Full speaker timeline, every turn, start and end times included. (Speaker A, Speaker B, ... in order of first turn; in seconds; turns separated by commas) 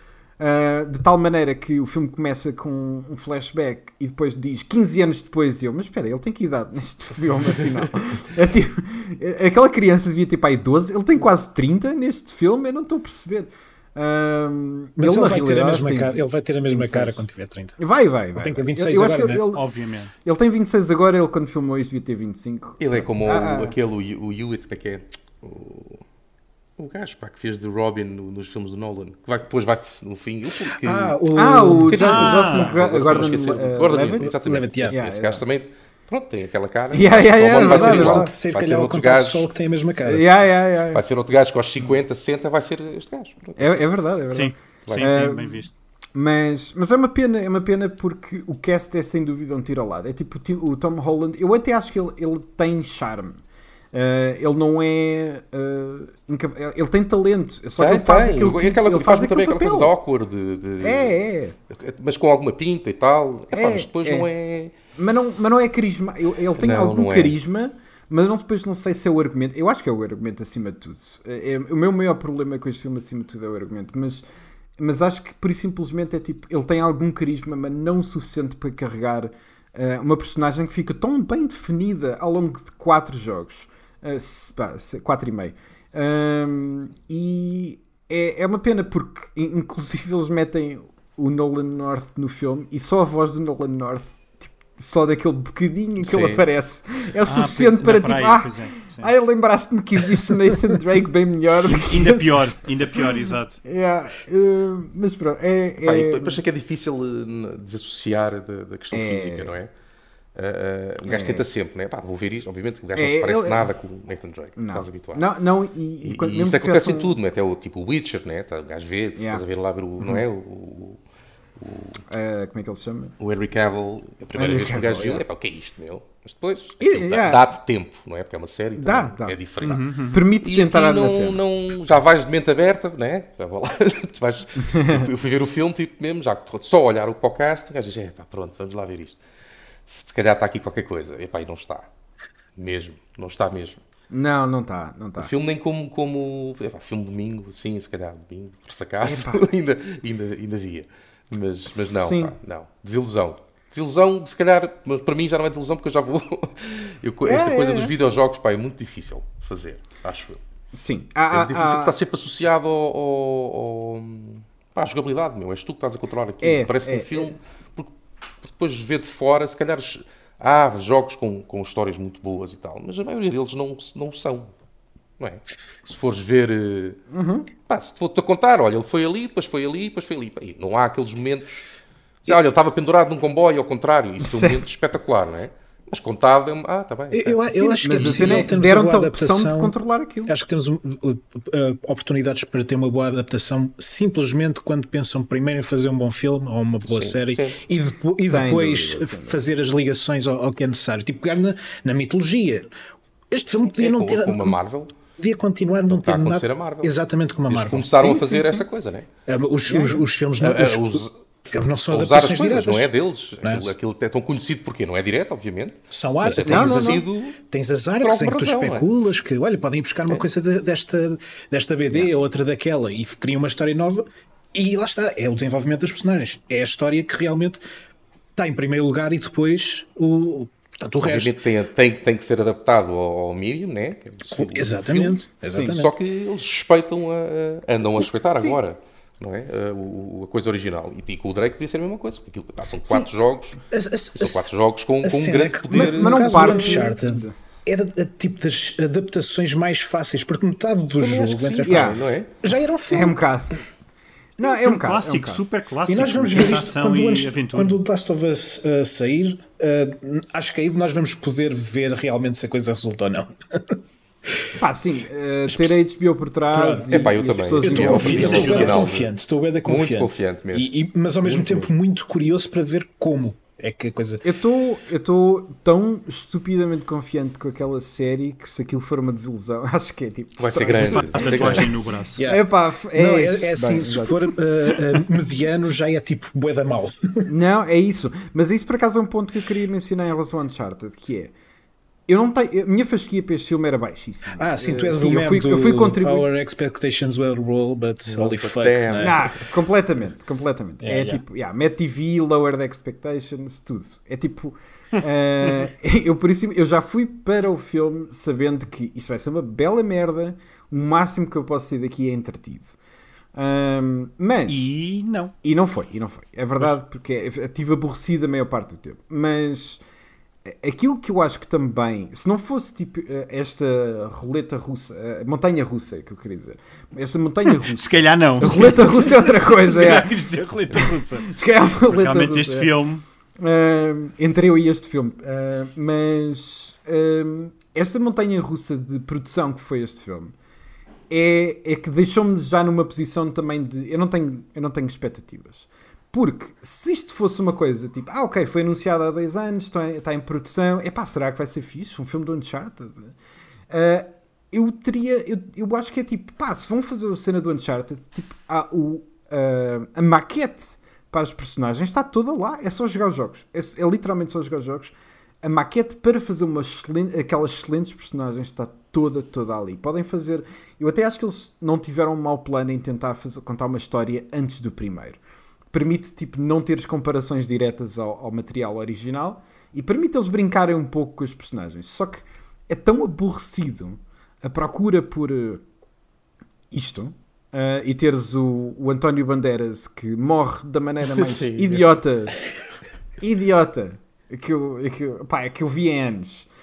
Speaker A: 0.4-19.6, Speaker B: 15.0-17.8, Speaker B: 18.4-19.4, Speaker C: 19.5-20.1, Speaker A: 20.2-23.7, Speaker D: 22.8-26.0, Speaker D: 26.8-31.2, Speaker B: 30.8-32.5, Speaker A: 31.3-34.3, Speaker D: 31.9-39.5, Speaker C: 32.0-32.8, Speaker B: 34.2-35.0, Speaker A: 34.9-35.4, Speaker A: 36.9-38.3, Speaker B: 37.5-40.3, Speaker A: 40.0-41.0, Speaker D: 40.9-43.8, Speaker A: 43.6-53.4, Speaker C: 44.3-45.7, Speaker D: 44.9-45.1, Speaker A: 53.9-59.9, Speaker D: 57.8-61.1, Speaker A: 60.8-61.6, Speaker D: 61.7-64.7, Speaker A: 63.5-64.3, Speaker A: 65.0-74.2, Speaker D: 66.6-67.4, Speaker A: 74.8-102.5, Speaker D: 96.0-96.5, Speaker C: 97.2-99.1, Speaker C: 101.8-103.6, Speaker A: 103.6-106.4, Speaker D: 105.8-109.7, Speaker A: 108.9-109.6, Speaker D: 110.3-115.2, Speaker A: 111.0-111.5, Speaker A: 113.0-113.7, Speaker A: 114.6-117.2, Speaker D: 116.0-121.0, Speaker A: 119.2-119.4, Speaker D: 121.6-122.0, Speaker A: 122.1-123.1, Speaker D: 123.2-139.2, Speaker A: 124.3-125.2, Speaker A: 126.8-127.5, Speaker A: 128.8-129.4, Speaker C: 129.6-130.3, Speaker A: 130.1-131.4, Speaker A: 134.6-135.1, Speaker D: 139.9-141.9, Speaker D: 142.6-143.8, Speaker A: 144.1-145.3, Speaker D: 145.2-160.4, Speaker A: 149.0-149.5, Speaker A: 151.7-152.3, Speaker A: 157.2-157.9, Speaker A: 160.7-162.0, Speaker D: 161.3-174.5, Speaker A: 166.4-167.4, Speaker D: 175.2-177.0, Speaker A: 177.1-177.5, Speaker D: 177.6-181.6, Speaker D: 182.2-188.5, Speaker A: 184.2-184.7, Speaker B: 187.1-189.8, Speaker A: 187.5-190.3, Speaker B: 190.3-202.7, Speaker D: 196.8-197.6, Speaker A: 198.2-199.4, Speaker B: 203.3-204.6, Speaker D: 203.8-205.0, Speaker B: 205.2-208.1, Speaker D: 205.9-206.9, Speaker D: 207.5-209.1, Speaker A: 208.0-208.7, Speaker B: 209.3-212.9, Speaker A: 209.7-210.0, Speaker D: 210.4-211.1, Speaker D: 211.9-217.4, Speaker B: 213.4-213.7, Speaker B: 215.9-227.6, Speaker A: 216.4-217.1, Speaker D: 218.0-218.9, Speaker B: 228.4-231.4, Speaker D: 231.0-243.6, Speaker B: 234.3-235.9, Speaker B: 243.7-244.5, Speaker D: 244.2-246.9, Speaker B: 245.0-253.2, Speaker A: 245.7-247.3, Speaker D: 251.0-252.3, Speaker A: 251.6-252.0, Speaker A: 252.9-253.6, Speaker A: 254.4-255.4, Speaker C: 254.4-257.8, Speaker B: 255.9-263.8, Speaker A: 264.6-268.8, Speaker B: 265.5-265.8, Speaker B: 266.5-274.2, Speaker D: 266.9-269.1, Speaker C: 267.8-268.8, Speaker D: 269.6-270.7, Speaker A: 271.2-271.7, Speaker A: 274.2-281.6, Speaker D: 280.4-281.8, Speaker C: 280.8-282.2, Speaker B: 282.2-287.3, Speaker A: 282.3-284.3, Speaker A: 287.3-291.3, Speaker A: 292.1-296.3, Speaker B: 294.4-299.3, Speaker D: 294.6-294.9, Speaker D: 298.1-299.3, Speaker A: 299.0-312.8, Speaker B: 300.8-301.2, Speaker A: 313.4-314.7, Speaker C: 314.5-315.3, Speaker A: 315.4-319.8, Speaker A: 320.4-330.2, Speaker C: 327.6-333.0, Speaker A: 330.7-332.7, Speaker A: 333.4-340.3, Speaker A: 341.1-353.1, Speaker A: 353.7-375.2, Speaker A: 375.7-385.6, Speaker A: 386.7-392.4, Speaker D: 391.0-391.9, Speaker A: 393.2-396.5